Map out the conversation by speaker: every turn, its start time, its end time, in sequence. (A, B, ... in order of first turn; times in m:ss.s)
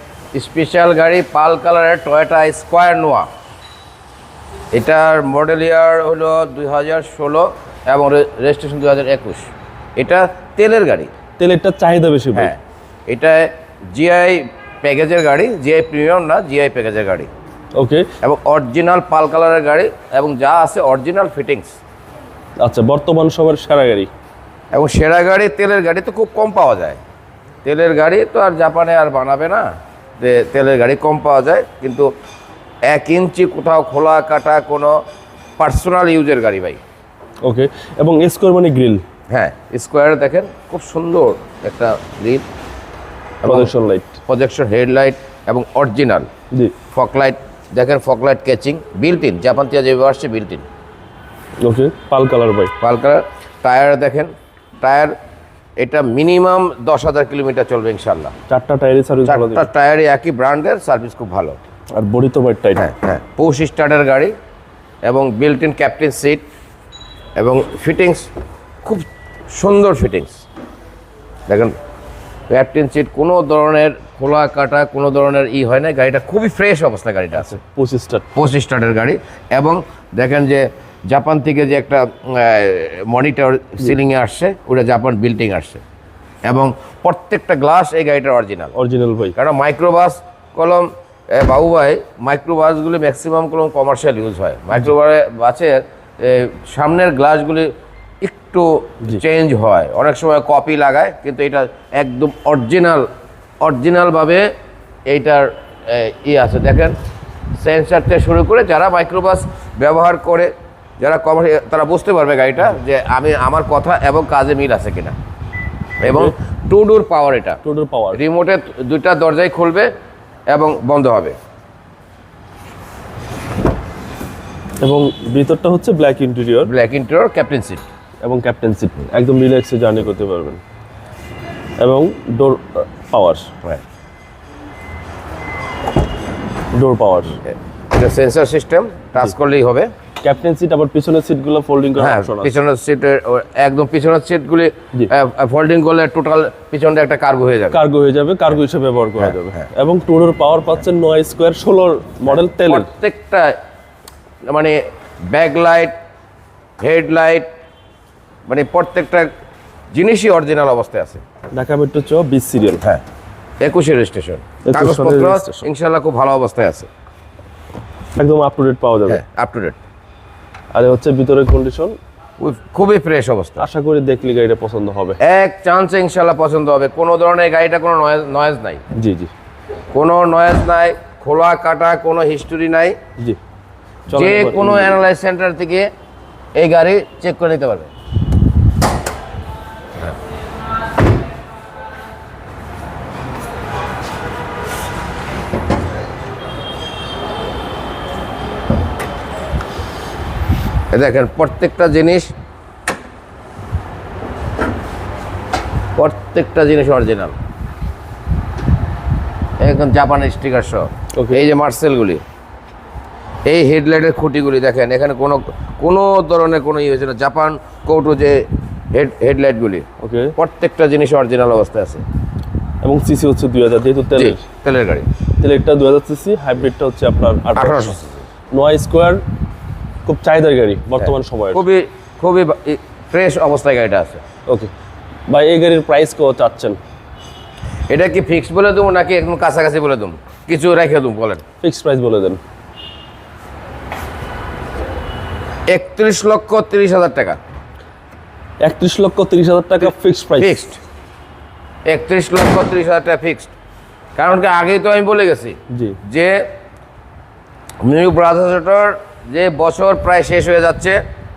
0:00.3-0:03.3 A
0:04.7-0:11.1 A
0:11.4-0:12.5 B
0:12.3-0:17.3 A
0:17.8-0:18.1 B
0:18.2-0:21.8 A
0:22.6-0:24.1 B
0:24.7-0:27.0 A
0:27.6-0:29.7 A
0:30.2-0:32.1 A
0:32.9-0:35.0 A
0:35.6-0:36.8 A
0:37.4-0:39.0 B
0:39.3-0:42.4 A
0:43.4-0:43.7 A
0:43.4-0:44.2 B
0:44.3-0:46.3 A
0:46.9-0:50.6 A
0:51.6-0:52.7 B
0:52.8-0:55.2 A
0:55.8-0:58.3 A
0:58.5-0:59.7 B
0:59.2-1:01.6 A
1:01.9-1:02.9 B
1:02.8-1:04.3 A
1:05.0-1:06.4 A
1:07.4-1:08.3 A
1:08.8-1:10.4 A
1:11.5-1:11.8 A
1:12.5-1:17.6 A
1:17.4-1:18.3 B
1:18.4-1:25.8 A
1:26.4-1:28.8 A
1:28.8-1:29.4 B
1:29.4-1:43.1 A
1:43.6-1:44.5 A
1:45.1-1:47.0 A
1:47.6-1:55.2 A
1:56.0-1:57.6 A
1:56.1-1:56.3 B
1:57.6-1:58.2 B
1:58.1-1:59.9 A
2:00.5-2:01.4 A
2:04.8-2:06.7 B
2:06.6-2:07.8 A
2:08.2-2:10.6 B
2:11.8-2:13.5 B
2:16.7-2:17.4 B
2:17.9-2:19.9 A
2:20.2-2:22.6 B
2:22.0-2:27.8 A
2:27.7-2:32.9 B
2:32.5-2:33.6 A
2:34.5-2:35.9 A
2:36.8-2:37.5 A
2:38.5-2:39.3 A
2:39.9-2:41.2 A
2:41.5-2:42.8 B
2:43.6-2:46.9 A
2:44.7-2:45.6 B
2:48.2-2:49.2 B
2:49.1-2:49.8 A
2:50.7-2:52.0 B
2:52.4-2:53.6 A
2:53.6-2:55.2 B
2:55.2-2:58.8 A
2:59.0-2:59.3 B
2:59.9-3:03.0 A
3:04.1-3:05.0 B
3:04.1-3:05.9 A
3:06.6-3:07.9 A
3:20.9-3:22.3 A
3:26.0-3:27.4 A
3:29.6-3:32.2 A
3:31.2-3:31.5 B
3:33.5-3:42.0 A
3:40.0-3:40.3 B
3:42.8-3:44.4 B
3:44.2-3:45.1 A
3:45.4-3:48.0 B
3:47.6-3:48.1 A
3:48.5-3:49.2 B
3:50.1-3:51.6 B
3:51.0-3:54.2 A
3:55.3-3:56.8 B
3:57.9-4:01.4 A
4:01.6-4:02.4 B
4:05.7-4:07.4 A
4:08.6-4:10.6 B
4:09.8-4:10.8 A
4:11.9-4:13.5 A
4:14.2-4:16.4 A
4:17.8-4:21.0 A